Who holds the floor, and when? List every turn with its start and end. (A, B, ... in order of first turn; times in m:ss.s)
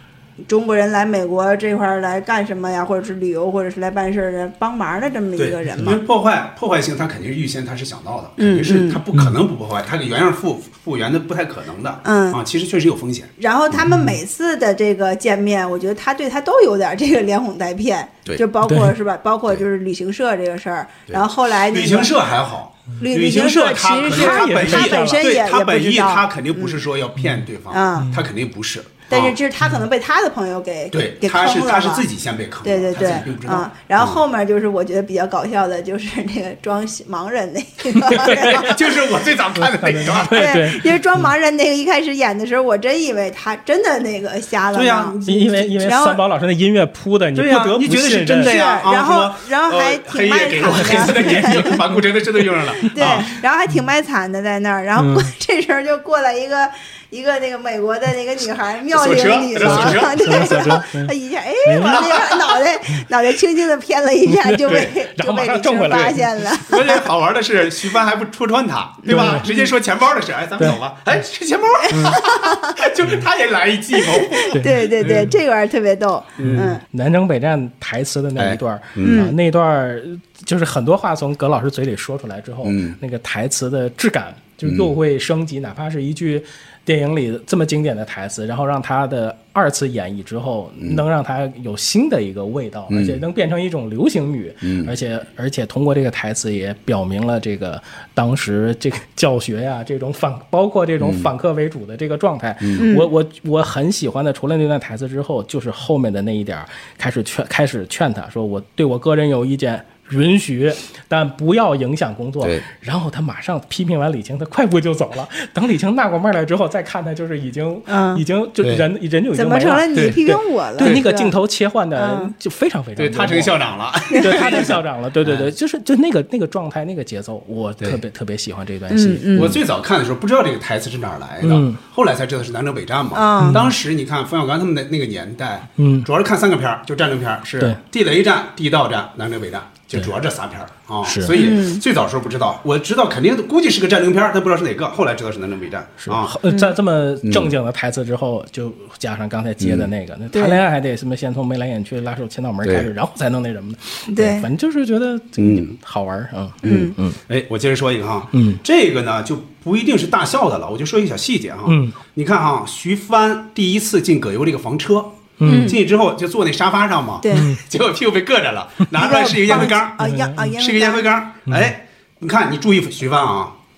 0:00.4-0:06.0 A
0:05.4-0:13.9 B
0:08.4-0:09.0 A
0:12.0-0:12.4 A
0:13.4-0:22.1 A
0:13.9-0:14.2 C
0:18.6-0:18.9 C
0:21.1-0:29.4 B
0:23.0-0:26.8 A
0:24.1-0:25.2 C
0:27.7-0:28.1 A
0:28.0-0:28.3 C
0:29.1-0:32.0 A
0:30.9-0:34.2 B
0:32.6-0:38.8 A
0:38.2-0:38.7 C
0:38.2-0:40.7 B
0:39.6-0:40.8 C
0:40.3-0:45.1 A
0:44.7-0:45.9 B
0:45.2-0:48.5 C
0:45.8-0:46.2 A
0:47.3-0:53.3 B
0:48.4-0:51.8 A
0:50.6-0:51.8 C
0:52.8-0:53.1 C
0:52.9-1:07.0 A
0:55.0-0:55.3 C
0:58.9-1:00.8 B
0:59.6-1:01.1 C
1:01.6-1:02.0 C
1:01.8-1:02.6 B
1:04.3-1:06.6 C
1:04.6-1:04.9 B
1:06.7-1:15.3 B
1:09.0-1:09.7 A
1:09.1-1:09.5 C
1:11.9-1:12.2 C
1:11.9-1:12.8 A
1:14.0-1:16.8 A
1:14.5-1:14.9 C
1:16.4-1:16.7 B
1:16.4-2:03.6 C
1:18.4-1:19.3 B
1:19.0-1:19.3 A
1:22.6-1:23.0 B
1:24.6-1:24.9 B
1:32.9-1:33.2 B
1:34.6-1:34.9 B
1:41.0-1:41.3 B
1:42.6-1:42.8 B
1:42.8-1:43.1 A
1:52.4-1:52.6 B
1:57.9-1:58.2 A
1:59.3-2:01.3 A
1:59.9-2:01.0 B
2:02.0-2:02.3 A
2:03.0-2:05.5 B
2:04.1-2:04.7 A
2:04.1-2:09.5 C
2:08.9-2:09.6 A
2:09.3-2:26.4 B
2:11.4-2:11.8 C
2:13.1-2:13.7 A
2:13.4-2:13.7 C
2:15.8-2:16.1 C
2:21.0-2:21.4 C
2:21.3-2:21.8 A
2:26.0-2:37.2 C
2:26.5-2:26.7 A
2:27.2-2:27.5 B
2:29.6-2:29.9 B
2:30.3-2:30.6 A
2:32.6-2:32.9 B
2:34.1-2:34.5 A
2:35.4-2:35.8 B
2:36.6-2:36.9 A
2:36.6-2:53.5 B
2:38.3-2:38.6 C
2:41.7-2:42.0 C
2:45.4-2:45.7 C
2:45.4-2:45.8 A
2:47.2-2:47.5 A
2:47.3-2:47.6 C
2:49.0-2:51.0 A
2:50.0-2:50.5 C
2:51.4-2:51.7 C